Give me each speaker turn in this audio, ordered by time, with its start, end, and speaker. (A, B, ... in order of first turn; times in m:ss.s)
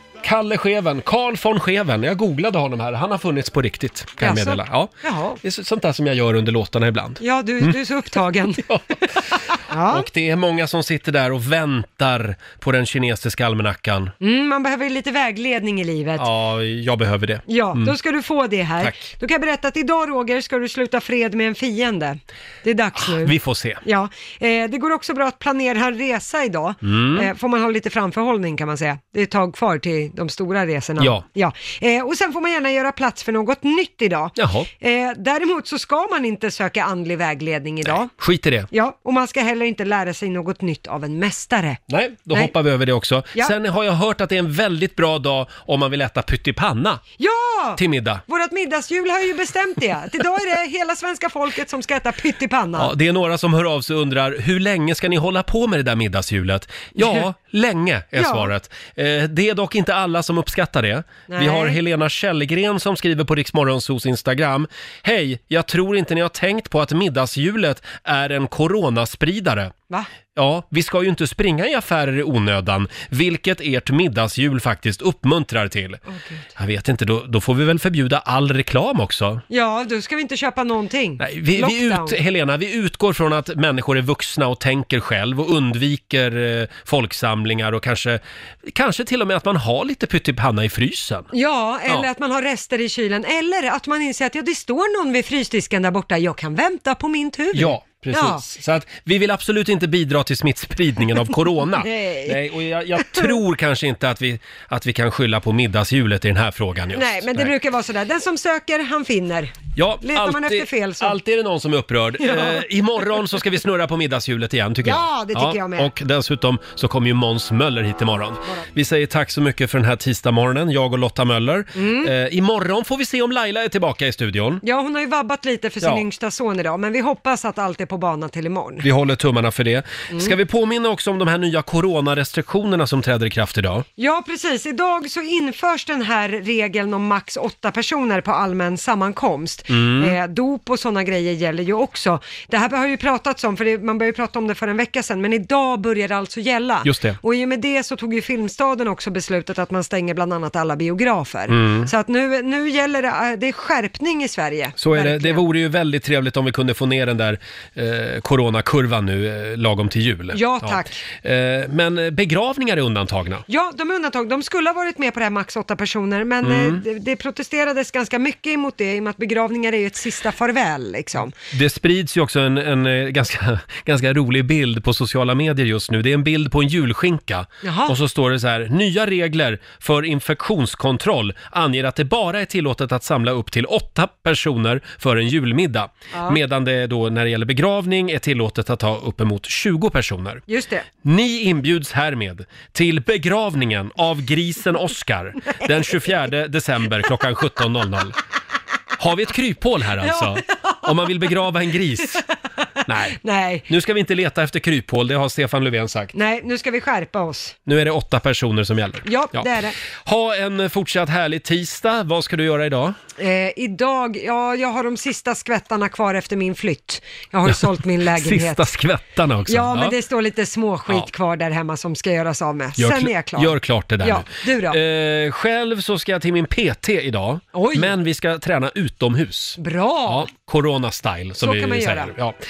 0:00.2-0:04.9 A
0:04.2-0:05.4 B
0:05.4-0:07.8 A
0:07.2-0:08.7 B
0:08.6-0:14.1 A
0:09.6-0:10.1 B
0:14.2-0:16.3 B
0:16.2-0:17.9 A
0:17.5-0:38.1 B
0:18.8-0:19.1 A
0:23.0-0:23.8 A
0:26.8-0:27.3 A
0:31.0-0:31.2 A
0:34.4-0:34.7 A
0:37.8-0:38.7 A
0:38.7-0:41.8 B
0:41.9-0:47.0 A
0:47.2-0:52.9 B
0:47.8-0:48.2 A
0:52.8-1:09.7 A
0:57.0-0:57.2 B
0:58.1-0:58.5 B
1:01.3-1:01.8 B
1:10.3-1:16.0 A
1:16.0-1:16.5 B
1:16.6-1:19.4 A
1:19.5-1:22.2 B
1:21.2-1:31.3 A
1:31.3-1:38.4 B
1:37.5-1:47.5 A
1:41.8-1:42.4 B
1:43.0-1:43.4 B
1:46.9-1:51.2 B
1:49.8-2:04.6 A
1:52.2-1:52.6 B
1:54.8-1:55.9 B
2:01.7-2:02.1 B
2:04.6-2:08.8 B
2:08.8-2:13.8 A
2:10.1-2:10.4 B
2:14.0-2:35.4 B
2:19.7-2:20.1 A
2:26.8-2:27.2 A
2:31.5-2:31.9 A
2:34.8-2:43.4 A
2:40.3-2:41.0 B
2:43.5-2:51.3 B
2:46.4-2:46.8 A
2:51.5-3:10.4 A
2:57.6-2:58.0 B
3:06.1-3:06.4 B
3:10.5-3:10.8 B
3:11.0-3:18.2 A
3:19.0-3:22.2 A
3:20.0-3:21.3 B
3:22.8-3:26.1 A
3:23.1-3:23.7 B
3:26.1-3:27.6 B
3:27.6-3:29.5 A
3:29.0-3:29.8 B
3:30.0-3:33.0 A
3:33.2-3:38.7 B
3:38.1-3:39.9 A
3:39.5-3:44.8 B
3:42.8-3:52.4 A
3:47.5-3:47.9 B
3:49.6-3:50.3 B
3:51.4-3:52.1 B